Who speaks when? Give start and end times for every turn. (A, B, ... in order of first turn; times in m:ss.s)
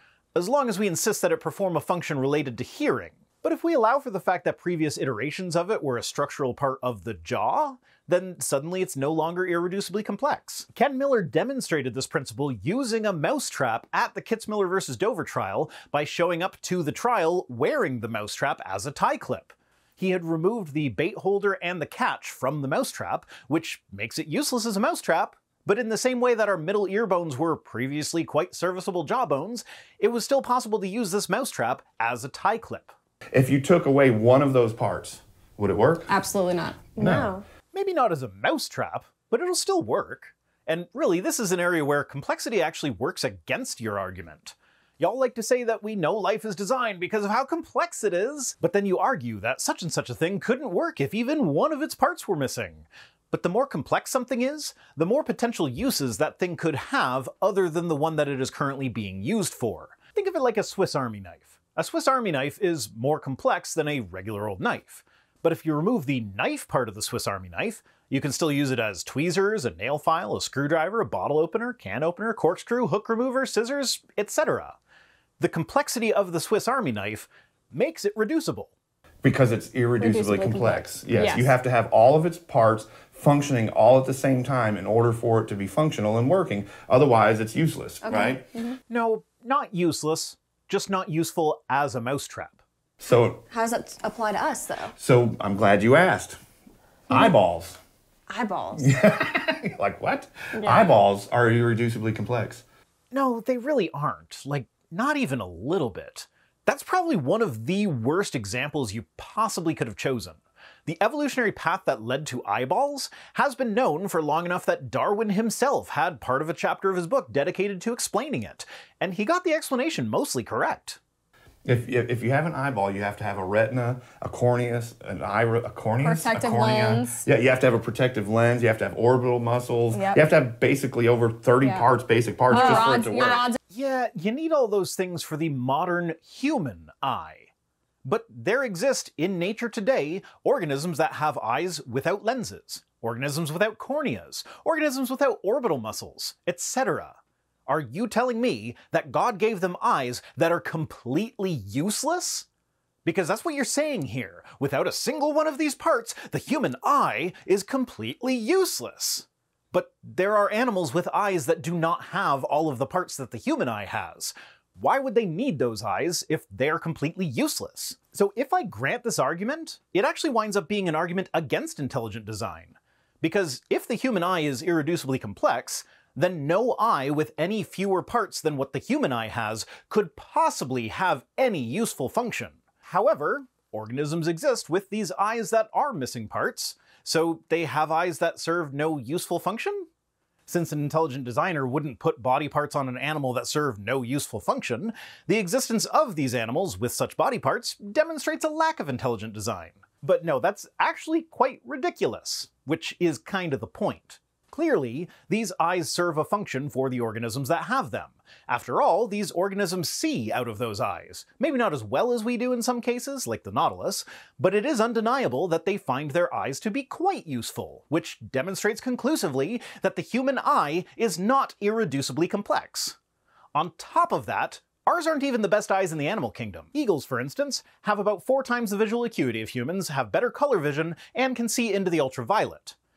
0:00.4-0:32.9 A
0:33.3-0:36.1 B
0:36.1-0:36.9 C
0:37.0-0:37.4 D
0:37.0-0:37.3 B
0:37.7-1:14.8 A
1:15.4-1:18.7 A
1:19.2-1:28.5 B
1:20.0-1:21.5 C
1:28.0-1:28.8 D
1:28.9-1:32.6 A
1:33.0-1:33.4 B
1:33.5-1:34.9 D
1:35.0-1:36.4 B
1:37.1-1:37.8 B
1:38.3-1:38.9 D
1:38.8-1:42.6 B
1:40.6-1:40.9 C
1:43.1-2:01.0 A
2:01.6-2:13.5 B
2:06.0-2:07.2 C
2:09.9-2:10.2 C
2:12.5-2:13.6 C
2:12.6-2:12.8 D
2:13.7-2:17.5 A
2:18.0-2:32.5 A
2:33.0-3:09.9 A
3:10.5-3:43.0 A
3:43.5-3:52.8 A